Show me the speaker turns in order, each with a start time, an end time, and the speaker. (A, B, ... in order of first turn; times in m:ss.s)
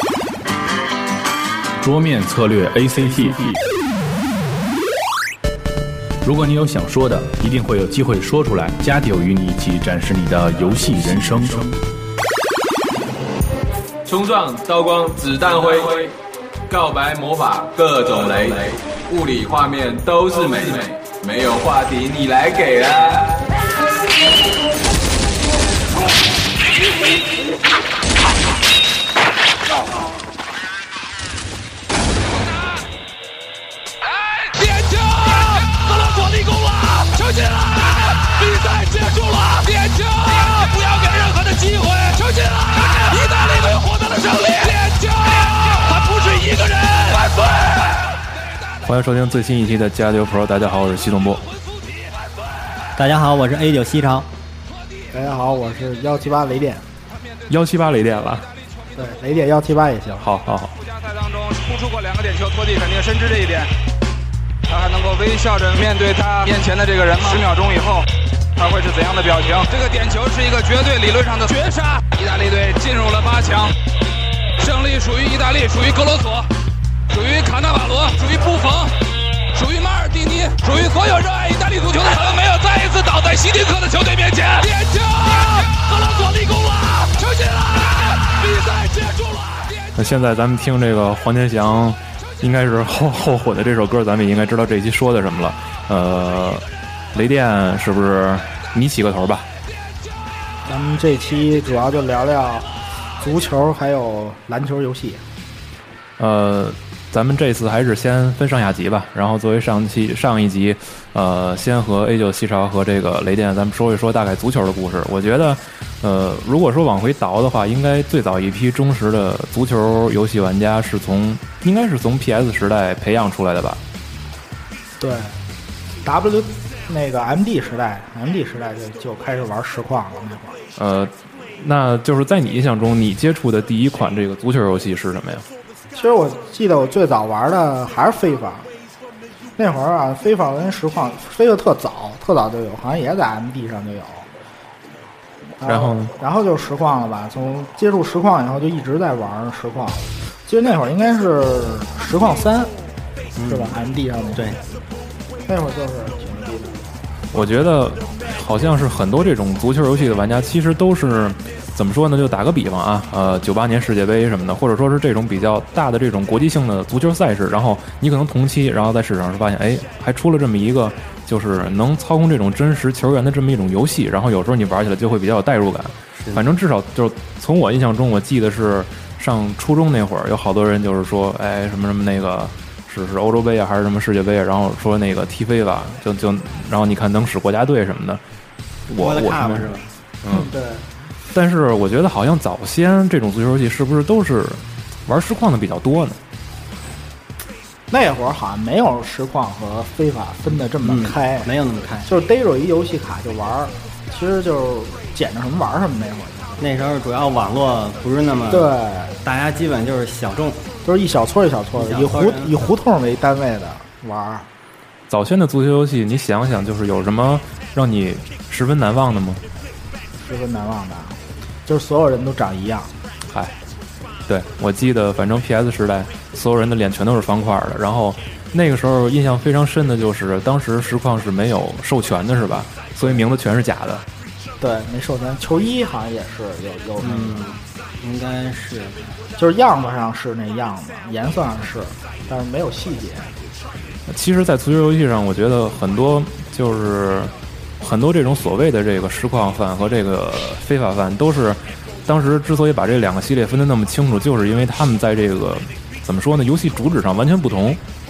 0:01.8-0:03.6 A
0:06.2-0:11.8 A
0:14.0-0:16.1 B
0:16.7-0:23.5 B
0:34.2-0:48.0 C
0:48.8-0:51.4 D
0:53.0-0:54.3 E
0:55.1-0:56.8 F
0:57.5-0:58.5 D
0:58.9-1:00.2 F
1:00.2-1:00.8 D
1:00.8-1:03.7 C
1:04.7-1:13.8 C
1:14.6-1:16.5 C
1:17.1-1:19.0 C
1:19.5-1:29.9 C
1:30.0-1:39.5 D
1:40.6-1:45.2 F
1:46.2-2:03.8 D
2:05.0-2:05.3 F
2:06.0-2:10.6 F
2:10.8-2:15.4 D
2:15.9-2:18.7 F
2:19.6-2:24.3 F
2:25.6-2:32.7 F
2:25.6-2:26.1 D
2:33.4-2:33.8 E
2:33.5-2:34.6 F
2:35.5-2:36.8 F
2:37.3-3:08.2 D
2:56.2-2:56.5 E
3:08.9-3:09.7 D
3:09.0-3:09.9 E
3:10.2-3:10.5 D
3:10.3-3:10.9 F
3:11.3-3:16.2 D
3:17.9-3:21.5 F
3:20.8-3:22.1 E
3:22.0-3:26.7 F
3:26.6-3:30.6 E
3:28.5-3:29.2 F
3:30.8-3:34.5 F
3:31.8-3:32.6 E
3:35.1-3:39.4 D
3:40.2-3:42.9 F
3:43.3-3:43.5 D
3:44.3-3:54.0 D
3:54.6-3:57.4 F
3:57.0-3:59.0 E
3:59.4-4:03.4 F
4:04.0-4:17.8 D